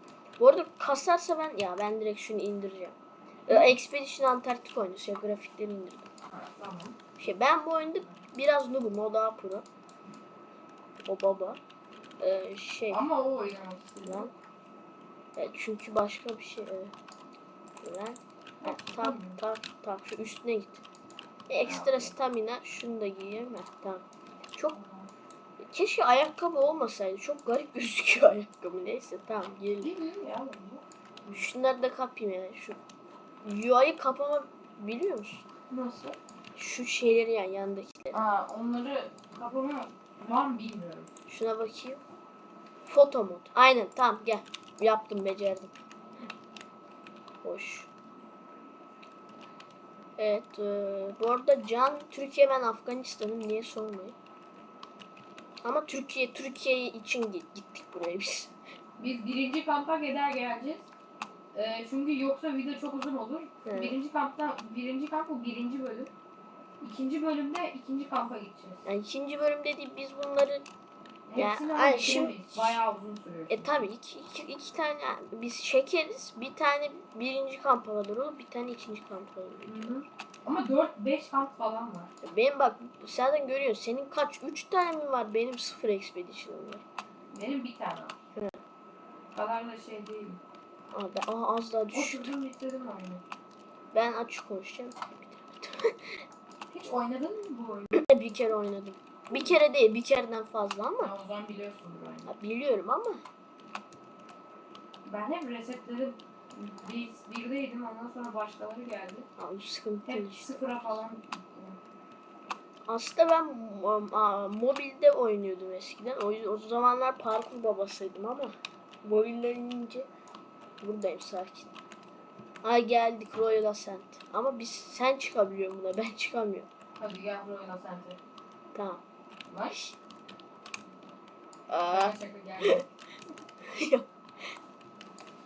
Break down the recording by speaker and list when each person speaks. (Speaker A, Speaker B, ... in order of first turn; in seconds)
Speaker A: 0.4-6.1, 7.2-9.7, 11.1-11.6, 12.2-13.1, 14.1-14.3, 15.4-16.9, 17.8-20.8, 21.5-24.8, 25.6-29.9, 31.3-32.8, 33.4-35.5, 36.5-38.2, 41.3-42.0, 42.9-45.8, 47.4-47.9, 50.2-54.2, 55.6-58.5, 63.6-64.0, 68.8-70.7, 71.4-72.8, 73.5-80.0, 82.2-86.8, 90.9-92.3, 93.9-96.2, 97.9-101.1, 102.3-103.2, 109.4-111.0, 112.9-120.1, 120.8-121.7, 122.6-126.7, 128.7-129.0, 129.7-130.0, 131.7-132.8, 133.7-134.1
Speaker B: 6.3-7.0, 12.9-14.3, 18.6-19.4, 21.6-22.1, 24.7-25.1, 29.8-31.5, 35.7-36.2, 38.1-41.1, 59.0-60.9, 61.5-66.1, 66.8-68.8, 71.3-73.9, 79.7-82.1, 87.3-88.2, 89.3-90.4, 91.9-93.2, 96.7-98.0, 99.3-99.6, 101.0-102.3, 105.0-109.3, 110.0-111.8, 127.0-128.2, 129.5-129.8, 131.9-132.9